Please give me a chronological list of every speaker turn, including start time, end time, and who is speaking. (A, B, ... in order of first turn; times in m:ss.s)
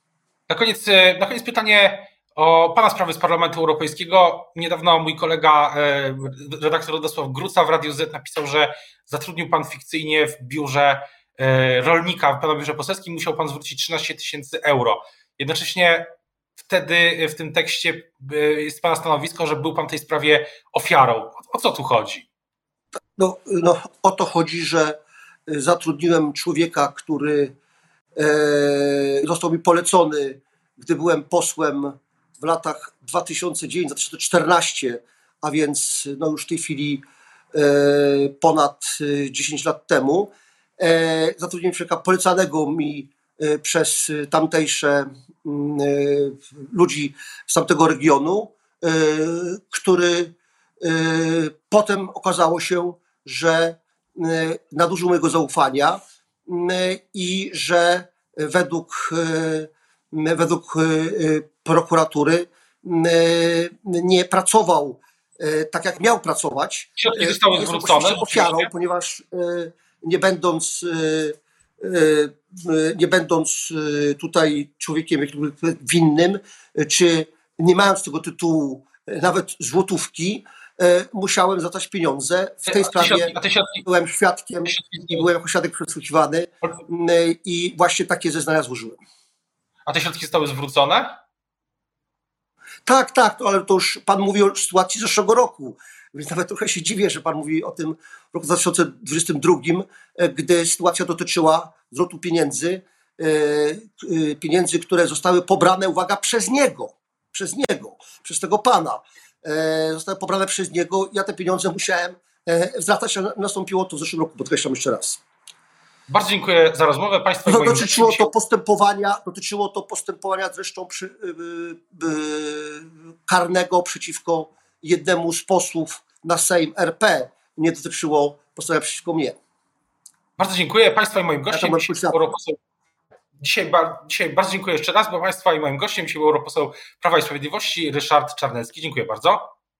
0:00.5-0:22.3 A
0:23.2-0:27.5 B
0:28.2-1:29.0 B
1:07.0-1:08.7 A
1:22.7-1:23.8 A
1:24.7-1:25.2 A
1:29.8-1:31.1 A
1:32.8-1:55.2 B
1:56.1-1:58.3 A
1:57.4-2:09.4 B
2:10.4-2:12.6 A
2:11.5-2:12.2 B
2:13.4-2:19.5 A